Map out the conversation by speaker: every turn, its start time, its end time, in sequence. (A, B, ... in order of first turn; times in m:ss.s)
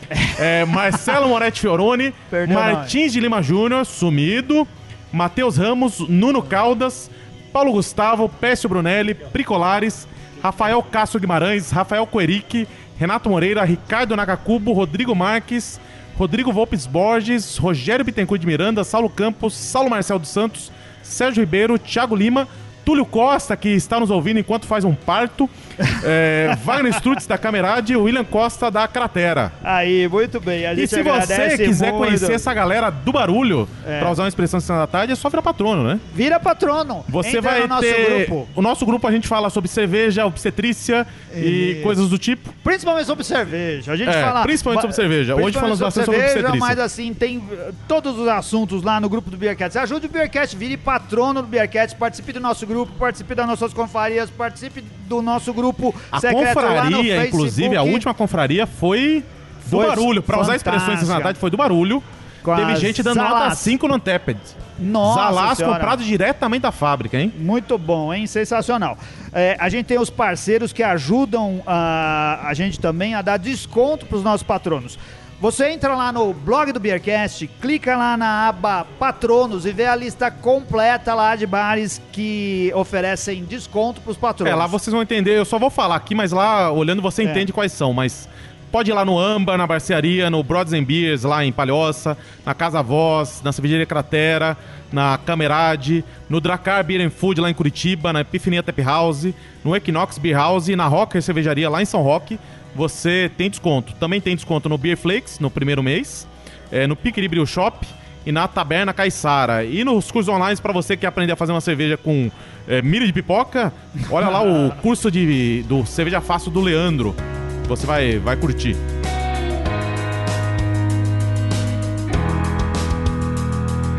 0:00.1-0:00.5 A
0:00.3-0:29.5 B
0:02.3-0:03.0 A
0:29.6-0:32.4 A
0:30.7-0:36.0 B
0:33.8-0:34.2 A
0:36.1-0:38.5 A
0:37.1-0:42.5 B
0:41.3-0:42.0 A
0:42.6-0:58.0 A
0:44.0-0:46.8 B
0:56.1-1:07.3 B
0:59.7-1:01.4 A
1:02.4-1:03.8 A
1:04.8-1:06.0 A
1:07.3-1:24.7 A
1:24.4-1:58.8 B